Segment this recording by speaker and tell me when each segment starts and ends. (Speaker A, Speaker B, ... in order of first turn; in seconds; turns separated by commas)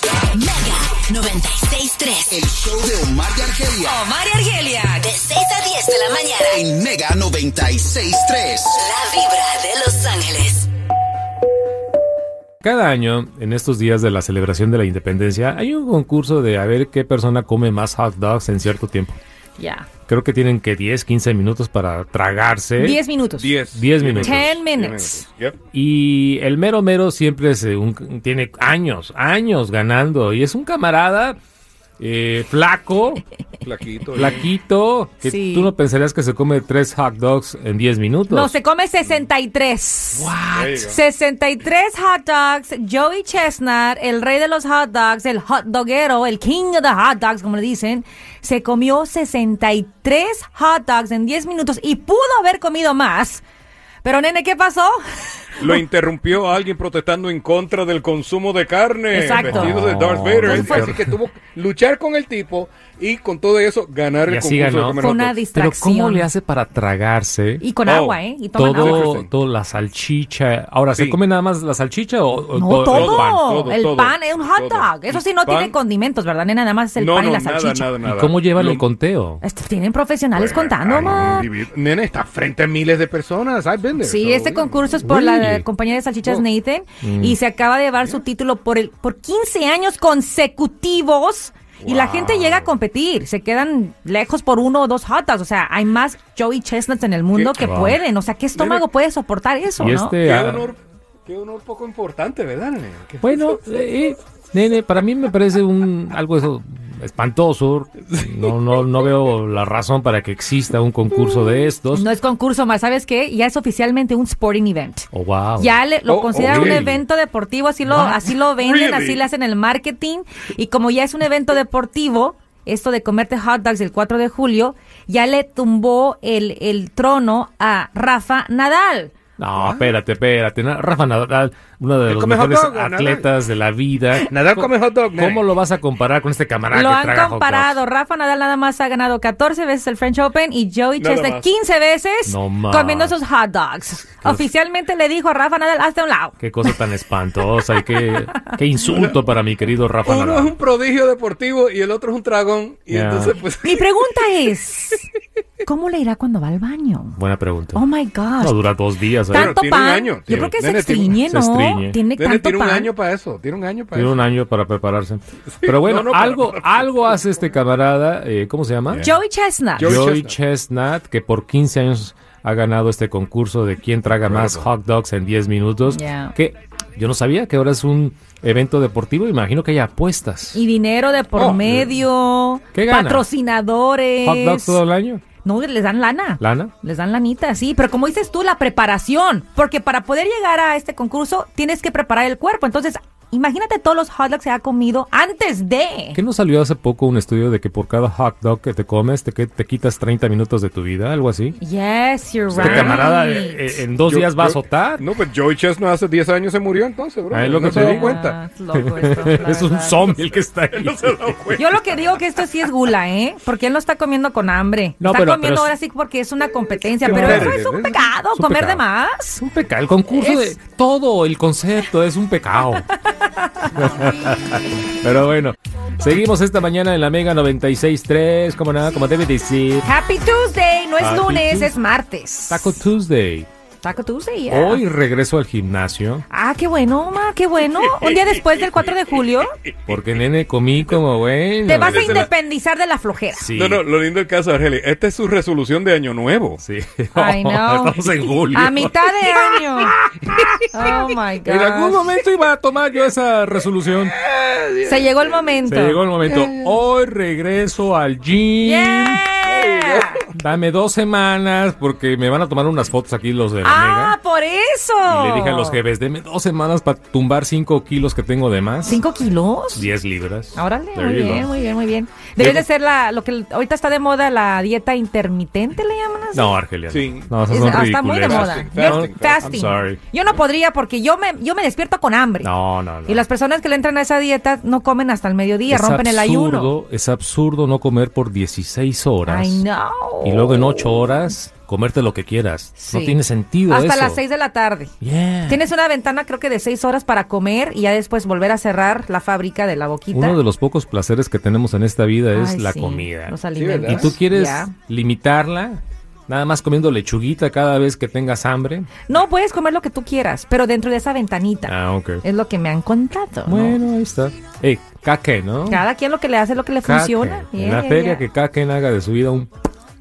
Speaker A: 0.4-2.2, Speaker B: 0.5-0.8, Speaker B: 1.7-2.2, Speaker C: 2.2-4.0, Speaker B: 3.8-5.9, Speaker A: 5.6-6.4, Speaker C: 6.4-8.9, Speaker A: 8.8-10.7, Speaker D: 12.6-19.2, Speaker B: 19.6-19.9, Speaker D: 20.1-23.0, Speaker B: 22.8-23.5, Speaker E: 23.4-25.6, Speaker D: 23.7-24.6, Speaker B: 24.1-25.2, Speaker D: 25.7-31.4, Speaker D: 32.0-33.2, Speaker E: 33.6-34.4, Speaker D: 34.1-38.5, Speaker B: 35.2-35.7, Speaker B: 38.3-53.4, Speaker D: 40.1-40.8, Speaker E: 40.5-41.0, Speaker B: 54.0-55.6, Speaker E: 55.6-65.4, Speaker B: 59.1-59.8, Speaker D: 59.3-61.0, Speaker B: 60.4-60.9, Speaker D: 64.3-65.0, Speaker B: 65.0-66.3, Speaker D: 65.5-67.6, Speaker B: 67.6-69.1, Speaker E: 67.8-69.3, Speaker D: 68.6-73.4, Speaker E: 70.9-71.2, Speaker B: 72.5-77.9, Speaker E: 72.9-75.8, Speaker E: 77.0-78.8, Speaker D: 78.0-79.4, Speaker B: 79.4-81.5, Speaker E: 80.3-84.9, Speaker B: 84.0-100.2, Speaker D: 85.0-85.6, Speaker D: 87.0-87.4, Speaker E: 91.8-92.1, Speaker D: 91.9-92.8, Speaker E: 97.3-97.7, Speaker D: 97.6-98.0, Speaker E: 98.5-98.9, Speaker D: 99.8-100.7, Speaker E: 100.1-103.6, Speaker D: 103.2-112.0, Speaker E: 108.1-108.6, Speaker B: 111.9-129.1, Speaker D: 115.1-115.8, Speaker E: 116.1-116.9, Speaker D: 116.3-117.0, Speaker D: 117.8-118.2, Speaker E: 118.3-119.2, Speaker D: 129.4-137.8, Speaker E: 129.5-129.9, Speaker E: 132.1-133.3, Speaker E: 134.2-135.4, Speaker B: 136.7-146.8, Speaker E: 141.0-141.5, Speaker D: 142.2-143.2, Speaker D: 146.4-150.5, Speaker E: 148.8-149.1, Speaker E: 150.0-154.1, Speaker D: 152.9-153.3, Speaker B: 153.6-155.1, Speaker B: 155.6-157.2, Speaker D: 157.2-157.8, Speaker B: 157.7-158.6, Speaker D: 158.4-159.6, Speaker E: 159.3-161.2, Speaker B: 159.3-162.9, Speaker D: 160.3-160.5, Speaker D: 161.2-162.0, Speaker E: 162.2-164.2, Speaker D: 163.9-169.1, Speaker E: 165.6-167.1, Speaker E: 168.9-169.2, Speaker B: 169.0-170.0, Speaker E: 169.8-170.3, Speaker D: 169.8-180.6, Speaker E: 174.1-174.7, Speaker B: 175.9-176.3, Speaker B: 180.5-184.8, Speaker E: 181.3-181.9, Speaker D: 182.7-183.2, Speaker D: 184.2-185.2, Speaker B: 185.4-196.2, Speaker D: 186.4-186.7, Speaker D: 196.1-201.6, Speaker B: 201.6-203.8, Speaker E: 202.5-203.3, Speaker D: 202.5-205.1, Speaker E: 204.0-208.3, Speaker D: 207.3-211.6, Speaker B: 207.6-210.2, Speaker E: 210.7-211.8, Speaker B: 211.5-219.4, Speaker D: 215.0-215.7, Speaker E: 217.0-218.1, Speaker D: 217.0-217.7, Speaker D: 218.2-218.8, Speaker D: 219.4-222.9, Speaker B: 220.1-220.5, Speaker B: 223.0-224.1, Speaker D: 223.7-229.9, Speaker B: 229.8-232.8, Speaker D: 231.0-231.7, Speaker D: 232.5-233.5, Speaker B: 233.8-234.8, Speaker D: 234.5-236.2, Speaker B: 236.3-239.5, Speaker E: 237.9-238.8, Speaker D: 239.9-242.3, Speaker B: 241.6-243.5, Speaker E: 241.7-242.3, Speaker D: 243.3-243.8, Speaker E: 243.5-246.6, Speaker D: 246.6-254.2, Speaker B: 247.2-249.9, Speaker B: 250.7-252.1, Speaker E: 254.2-255.5, Speaker B: 254.8-256.0, Speaker D: 255.7-259.2, Speaker E: 256.2-256.7, Speaker B: 258.6-260.2, Speaker E: 259.4-260.2, Speaker D: 260.3-264.2, Speaker B: 263.6-265.8, Speaker D: 265.0-269.0, Speaker B: 268.9-269.9, Speaker D: 269.7-271.5, Speaker B: 270.5-276.5, Speaker D: 272.4-272.6, Speaker D: 276.3-280.0, Speaker E: 276.9-279.7, Speaker B: 277.5-282.5, Speaker D: 282.4-283.2, Speaker B: 283.1-286.7, Speaker D: 285.7-289.6, Speaker B: 289.2-290.9, Speaker D: 290.2-294.2, Speaker B: 292.8-294.9, Speaker D: 295.0-295.6, Speaker B: 295.4-300.4, Speaker D: 300.1-308.9, Speaker B: 302.3-304.7, Speaker E: 303.5-304.2, Speaker B: 309.1-313.8, Speaker D: 311.7-312.2, Speaker D: 313.4-315.8, Speaker B: 315.7-318.2, Speaker D: 316.8-319.5